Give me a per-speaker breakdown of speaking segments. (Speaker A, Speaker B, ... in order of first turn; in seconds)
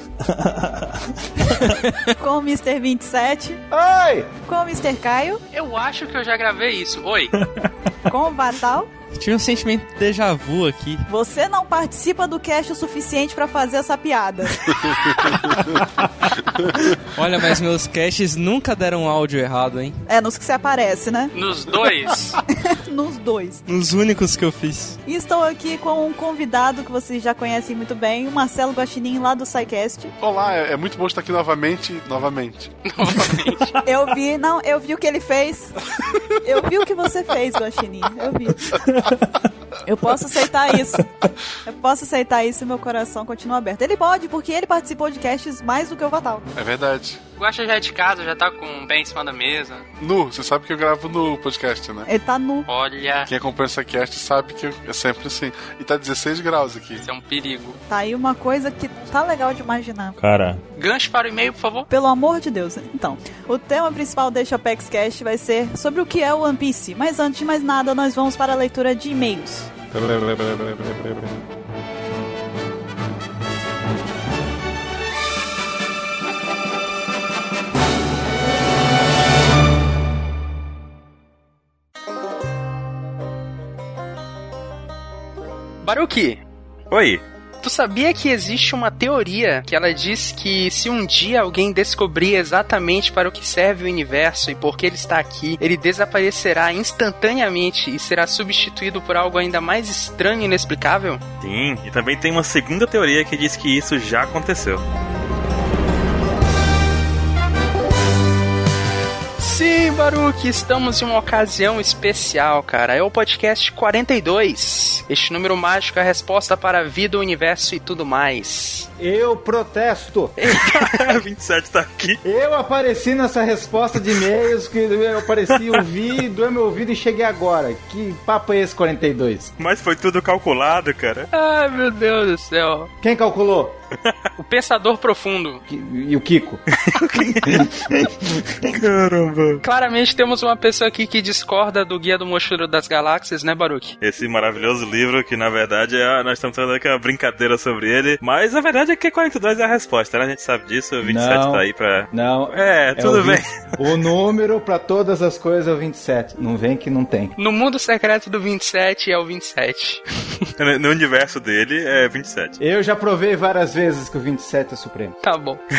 Speaker A: 0.2-1.8, 60.2-60.6, 86.9-87.2, 101.4-104.8, 120.5-122.2, 129.6-131.3, 136.9-137.7, 138.7-139.6, 144.0-153.5, 160.6-162.6
Speaker B: 2.2-3.6, 4.5-5.4, 8.1-8.9, 11.1-15.3, 20.1-21.3, 22.6-23.6, 25.1-30.1, 33.8-35.8, 36.4-38.8, 39.9-41.1, 41.6-46.4, 52.1-52.7, 57.9-60.2, 61.9-69.7
Speaker C: 3.7-4.3, 119.0-120.4, 122.2-129.5, 133.0-133.8, 135.7-136.6, 137.4-138.7, 151.0-157.3, 162.6-165.2
Speaker D: 5.5-7.3, 21.3-22.4, 32.9-33.8, 47.4-49.9, 52.7-53.3, 57.0-57.8, 60.8-61.9, 85.8-86.4, 87.6-101.2, 109.4-118.9, 120.4-121.2, 131.3-132.9, 134.4-135.6, 139.6-144.0, 157.4-160.5, 165.2-165.6
Speaker E: 9.1-11.1, 17.1-20.0, 23.7-25.0
Speaker F: 30.2-33.4, 46.5-47.2, 50.0-52.1, 53.3-57.0